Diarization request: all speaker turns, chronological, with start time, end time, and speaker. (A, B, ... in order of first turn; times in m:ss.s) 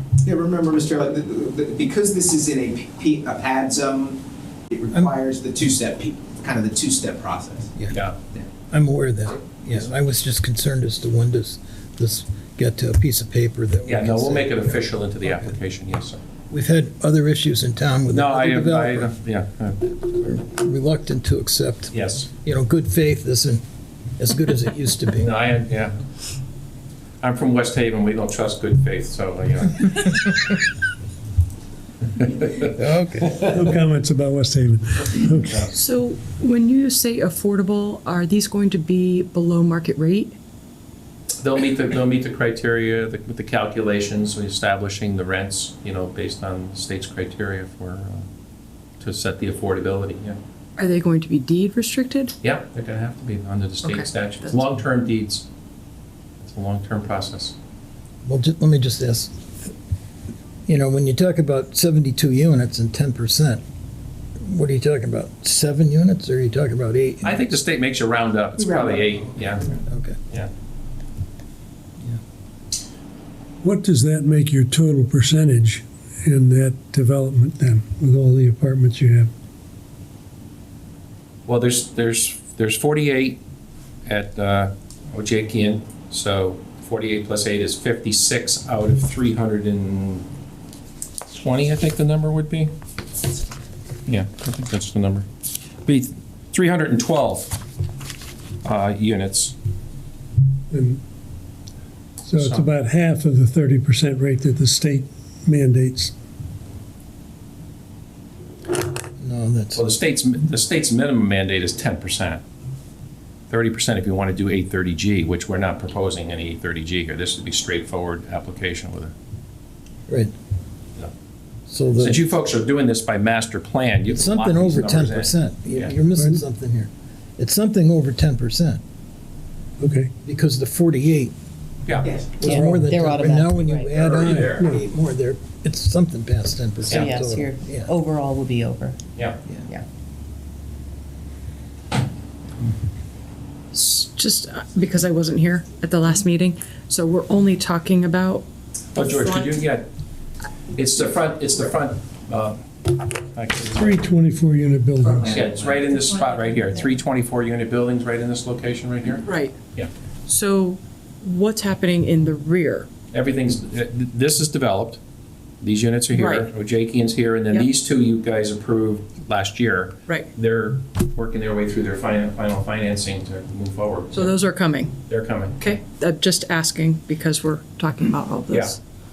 0:00.2-0:07.8 A
0:07.9-0:08.2 B
0:08.7-0:14.8 C
0:13.9-0:16.2 B
0:16.5-0:19.1 C
0:18.1-0:20.4 B
0:20.3-0:23.6 C
0:21.9-0:22.3 B
0:24.2-0:25.3 C
0:25.2-0:26.0 B
0:27.2-0:30.4 B
0:32.2-0:32.7 B
0:32.6-0:33.5 C
0:33.5-0:35.7 D
0:35.7-0:40.4 E
0:41.4-0:48.3 B
0:49.0-0:50.4 B
0:50.8-0:52.4 E
0:52.4-0:55.5 B
0:53.8-0:54.6 E
0:56.4-0:57.6 B
0:58.2-0:59.7 C
1:00.7-1:03.6 C
1:04.4-1:07.4 C
1:07.2-1:09.8 B
1:09.9-1:10.2 C
1:13.6-1:19.3 D
1:21.5-1:23.4 B
1:24.1-1:30.3 B
1:31.3-1:32.7 B
1:34.1-1:35.3 B
1:35.8-1:37.6 B
1:38.6-1:39.6 B
1:40.7-1:41.0 D
1:42.2-1:46.1 D
1:42.3-1:42.7 B
1:49.2-1:49.8 C
1:49.8-1:52.4 B
1:53.5-1:59.1 B
2:01.7-2:02.3 C
2:02.0-2:05.9 B
2:04.1-2:08.8 C
2:09.8-2:10.1 D
2:10.2-2:11.3 C
2:11.9-2:12.1 B
2:12.0-2:12.4 A
2:12.4-2:17.9 C
2:12.4-2:14.3 F
2:14.0-2:14.7 B
2:14.4-2:14.8 D
2:16.9-2:17.1 B
2:16.9-2:19.0 F
2:23.7-2:29.6 E
2:29.0-2:29.8 B
2:30.8-2:32.6 B
2:33.2-2:34.0 B
2:33.7-2:35.4 D
2:35.2-2:39.9 B
2:39.2-2:39.6 E
2:40.3-2:42.9 E
2:43.1-2:45.0 B
2:45.6-2:54.4 B
2:46.1-2:46.5 E
2:54.1-2:55.0 E
2:55.1-2:55.8 B
2:55.6-2:58.8 E